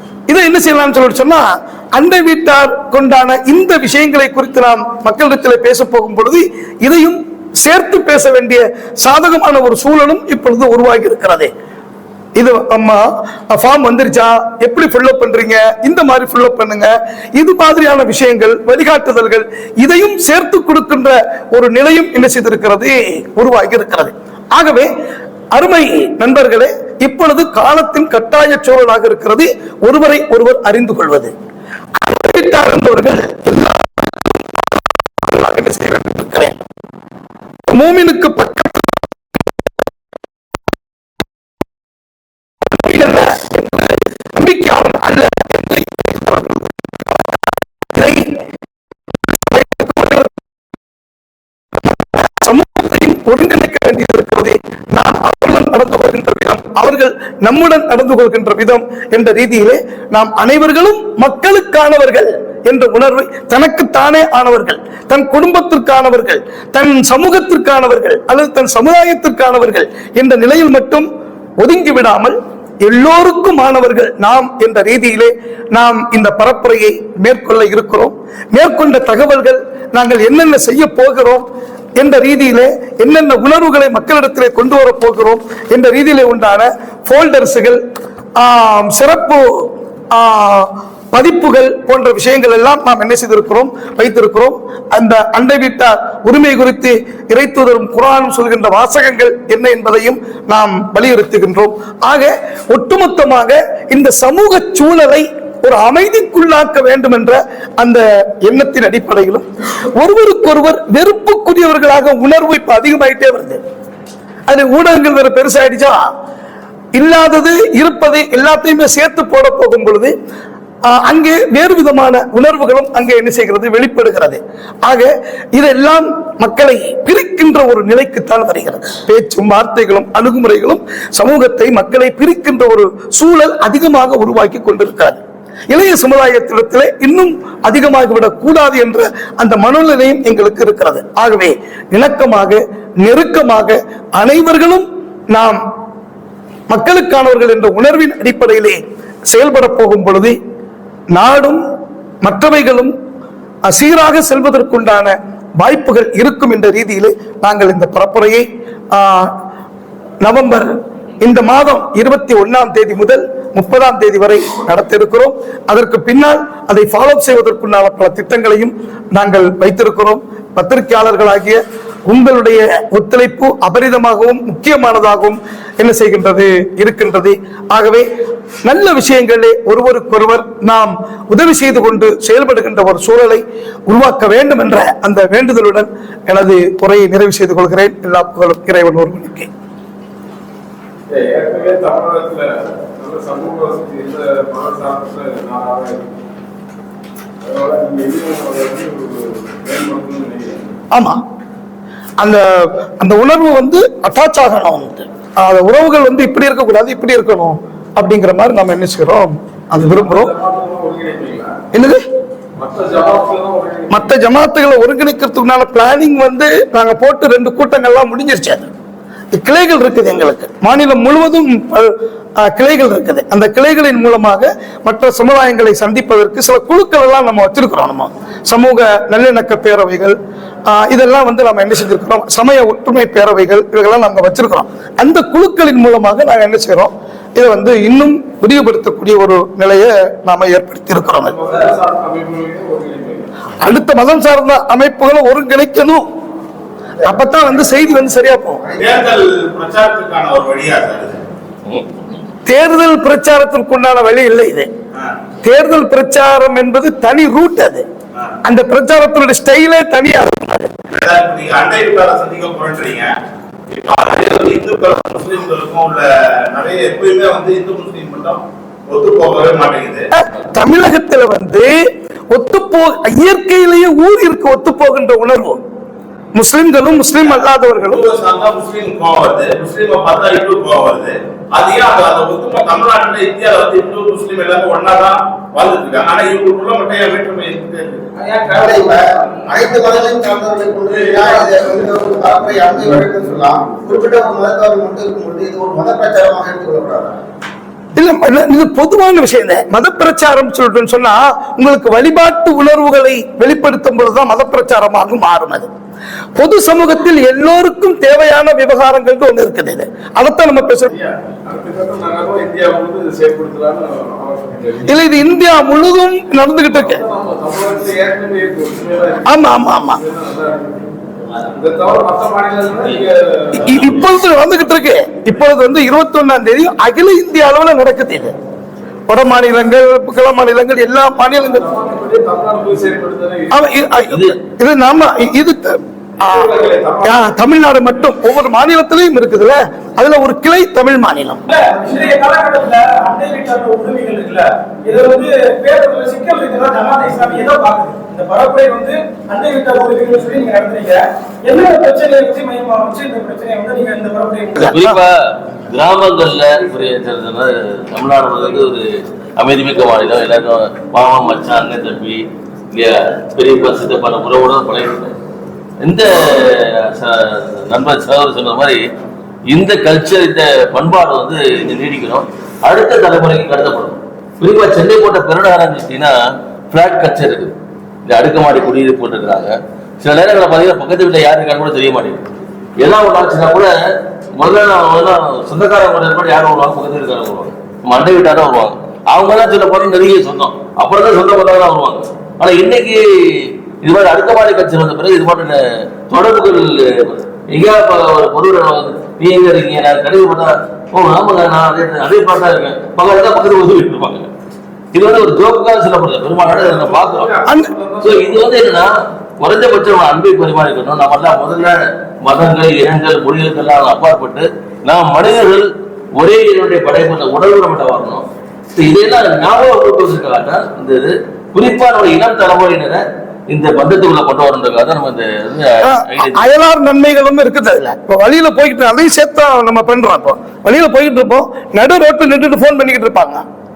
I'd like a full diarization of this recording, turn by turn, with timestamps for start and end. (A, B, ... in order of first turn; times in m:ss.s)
0:00.3-0:11.5 A
0:12.4-0:24.9 A
0:25.5-0:31.3 A
0:32.0-0:36.6 A
0:37.7-0:39.0 A
0:42.7-0:47.2 A
0:47.9-0:48.4 A
0:49.4-0:50.3 A
0:52.1-1:11.1 A
1:11.6-1:21.4 A
1:22.0-1:27.8 A
1:28.4-1:49.4 A
1:50.0-1:53.6 A
1:54.5-1:56.1 A
1:56.9-2:00.1 A
2:00.9-2:25.6 A
2:26.7-2:30.4 A
2:31.1-2:31.6 A
2:32.2-2:32.9 A
2:33.7-2:39.3 A
2:40.2-2:58.1 A
2:58.6-3:09.5 A
3:11.1-3:16.0 B
3:17.4-3:20.7 B
3:20.9-3:21.2 A
3:22.2-3:30.3 A
3:29.8-3:31.6 B
3:31.7-3:32.0 A
3:32.6-3:34.1 B
3:33.9-3:38.7 A
3:39.3-4:01.4 A
4:01.2-4:03.3 B
4:03.6-4:06.0 A
4:07.0-4:08.6 A
4:08.8-4:11.2 C
4:12.4-4:14.7 A
4:15.4-4:17.8 A
4:18.4-4:20.8 A
4:20.9-4:23.1 C
4:23.7-4:30.1 C
4:30.4-4:31.7 A
4:32.3-4:35.6 A
4:36.3-4:38.0 A
4:37.2-4:48.1 C
4:48.2-4:49.4 B
4:48.4-4:57.2 D
4:51.0-4:54.0 B
4:58.0-5:05.7 A
5:06.4-5:10.9 A
5:11.0-5:15.0 B
5:14.9-5:17.0 A
5:16.7-5:20.9 B
5:19.2-5:20.0 A
5:21.5-5:23.9 B
5:23.5-5:28.3 A
5:29.1-5:31.7 A
5:31.3-5:33.8 B
5:33.5-5:36.5 A
5:34.1-5:34.4 E
5:36.2-5:37.2 B
5:37.0-5:41.5 A
5:41.5-5:54.8 F
5:54.6-5:55.0 A
5:54.7-6:05.1 E
6:05.8-6:08.8 E
6:09.5-6:16.2 E
6:16.7-6:17.5 E
6:18.0-6:22.3 E
6:22.8-6:23.8 E
6:24.4-6:44.3 E
6:44.9-6:47.3 E
6:46.4-6:48.5 B
6:48.0-6:58.2 E
6:58.8-7:06.4 E
7:05.8-7:13.4 A